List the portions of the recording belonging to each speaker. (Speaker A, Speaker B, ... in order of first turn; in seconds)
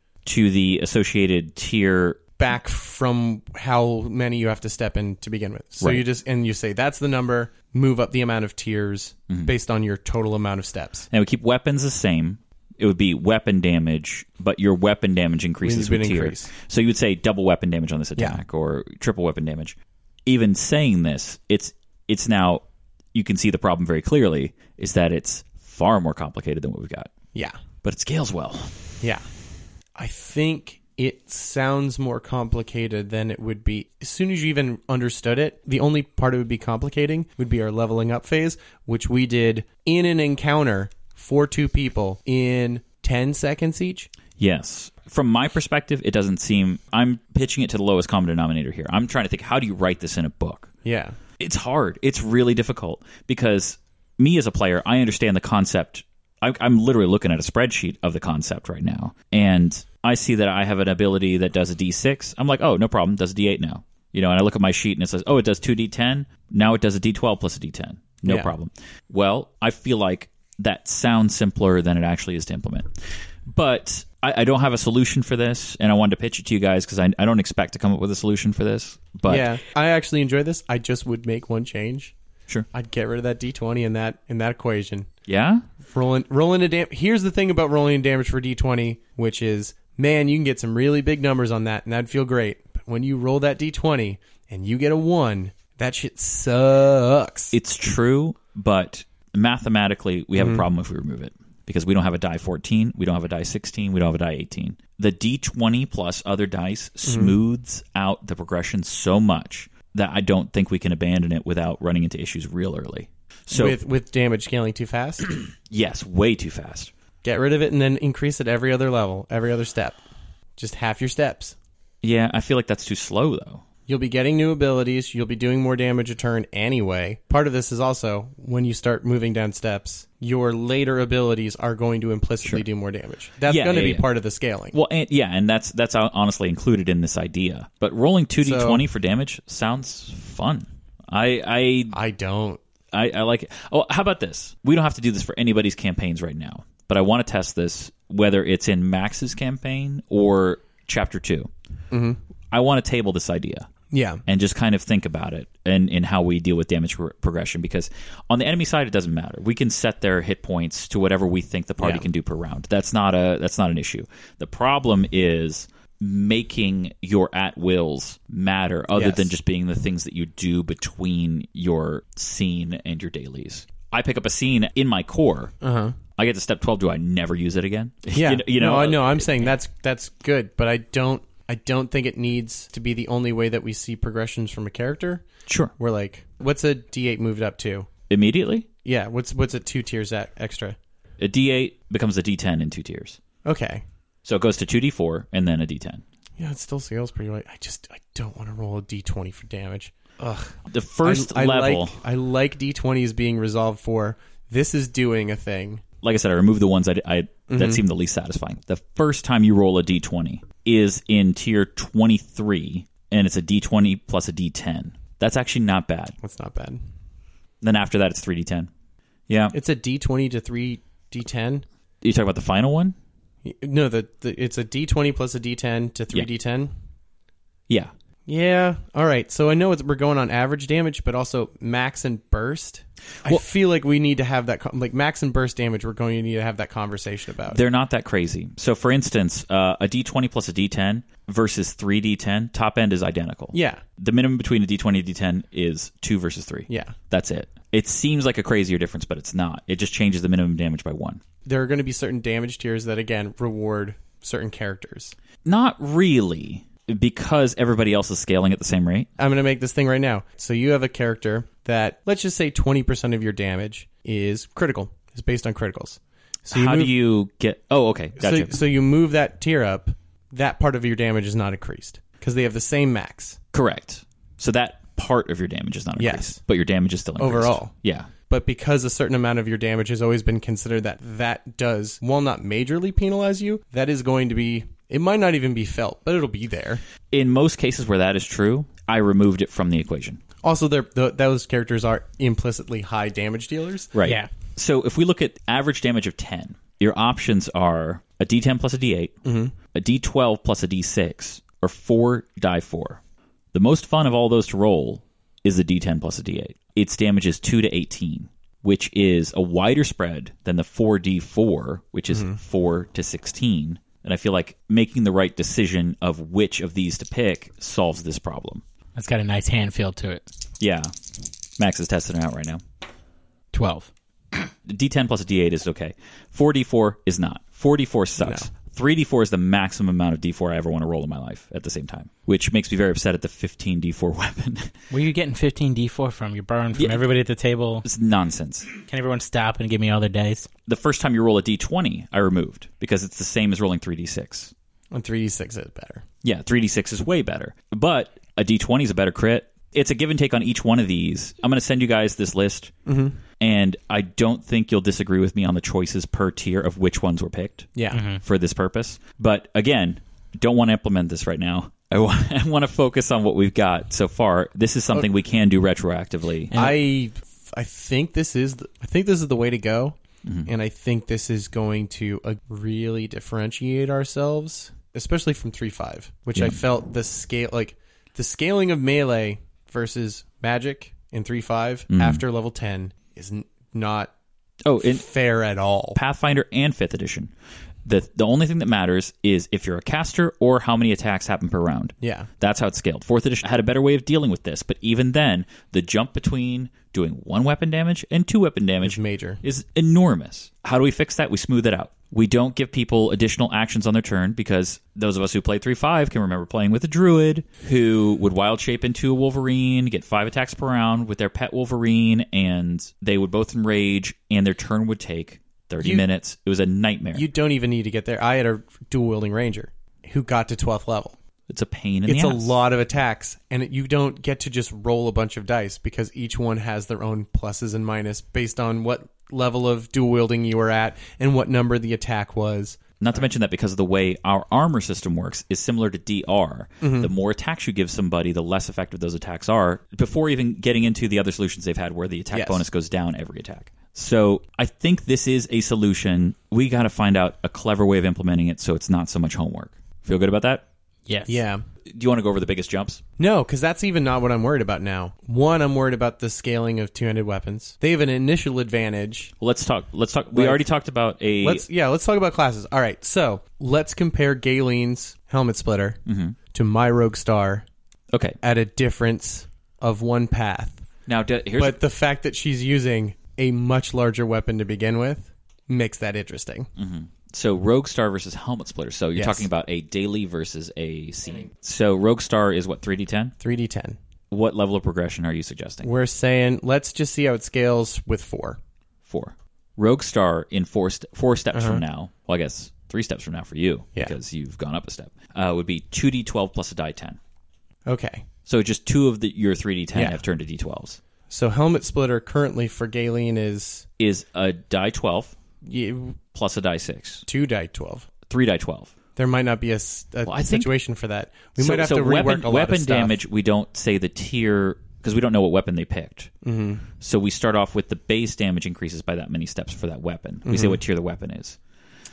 Speaker A: 0.2-2.2, 11.1-22.6, 23.1-27.1, 27.8-28.7, 44.4-50.7, 51.4-72.9, 73.5-79.5, 85.3-85.6, 97.5-113.8, 115.7-116.9, 122.0-123.6, 133.4-134.1, 134.7-142.0, 142.9-151.5, 152.5-153.7, 154.2-175.5, 176.2-179.5, 185.5-185.7, 188.1-188.7, 191.2-193.2, 194.2-196.0, 200.7-201.9, 206.0-216.1, 217.6-218.7, 219.3-219.5, 222.0-222.9, 237.5-251.2, 255.4-259.1, 266.5-268.6, 273.5-278.1, 287.1-290.2, 293.9-299.1, 299.7-303.0, 303.5-318.6, 320.6-320.9, 321.6-322.6, 324.7-334.7, 336.8-337.0, 337.8-338.7, 340.6-344.5, 346.2-352.7, 353.4-366.5, 370.2-370.5, 376.3-376.6, 381.9-382.2, 384.6-385.0, 385.9-387.3, 387.8-417.3, 421.5-422.6, 433.0-450.6, 451.9-453.0, 459.4-461.6, 466.1-466.4, 471.1-471.8, 476.8-483.3, 484.3-485.9, 489.1-497.2, 498.5-501.0, 504.0-505.3, 506.3-507.2, 508.3-508.9, 510.2-510.7, 511.6-516.3, 517.0-521.6
Speaker B: 2.4-11.1, 15.6-16.5, 30.0-44.1, 50.8-51.2, 68.2-68.5, 79.3-82.1, 82.7-85.1, 85.8-97.5, 100.3-100.6, 107.1-107.3, 113.5-115.3, 117.2-120.0, 120.6-121.5, 123.9-134.8, 138.4-138.8, 141.9-142.6, 151.9-152.2, 153.9-154.2, 161.8-162.1, 168.9-169.3, 175.6-176.0, 178.1-185.2, 185.8-187.9, 188.8-190.8, 193.4-193.8, 196.4-205.8, 207.5-207.8, 216.2-216.8, 219.5-221.6, 223.4-226.7, 228.2-237.6, 243.5-243.8, 246.7-246.9, 251.4-255.1, 259.2-266.9, 268.2-273.4, 276.0-276.4, 277.2-277.7, 278.3-286.8, 290.4-293.9, 299.2-299.5, 312.1-312.4, 328.2-328.5, 344.9-346.0, 352.9-353.2, 357.8-358.0, 366.5-384.1, 384.8-386.0, 392.0-392.3, 398.8-399.4, 417.1-421.1, 422.1-433.3, 436.8-437.1, 442.3-442.6, 451.3-451.6, 453.2-459.3, 460.3-460.6, 461.4-466.0, 466.5-467.6, 468.4-470.8, 471.6-476.7, 479.1-479.5, 483.4-484.0, 485.8-488.6, 491.5-491.8, 497.9-498.2, 499.9-500.2, 501.3-503.8, 505.6-506.2, 507.3-508.1, 509.2-513.2, 516.4-516.8, 520.4-520.8
Speaker C: 294.0-294.3, 318.9-320.2, 323.5-324.5, 334.9-337.8, 338.9-340.5, 357.9-358.2, 451.1-451.4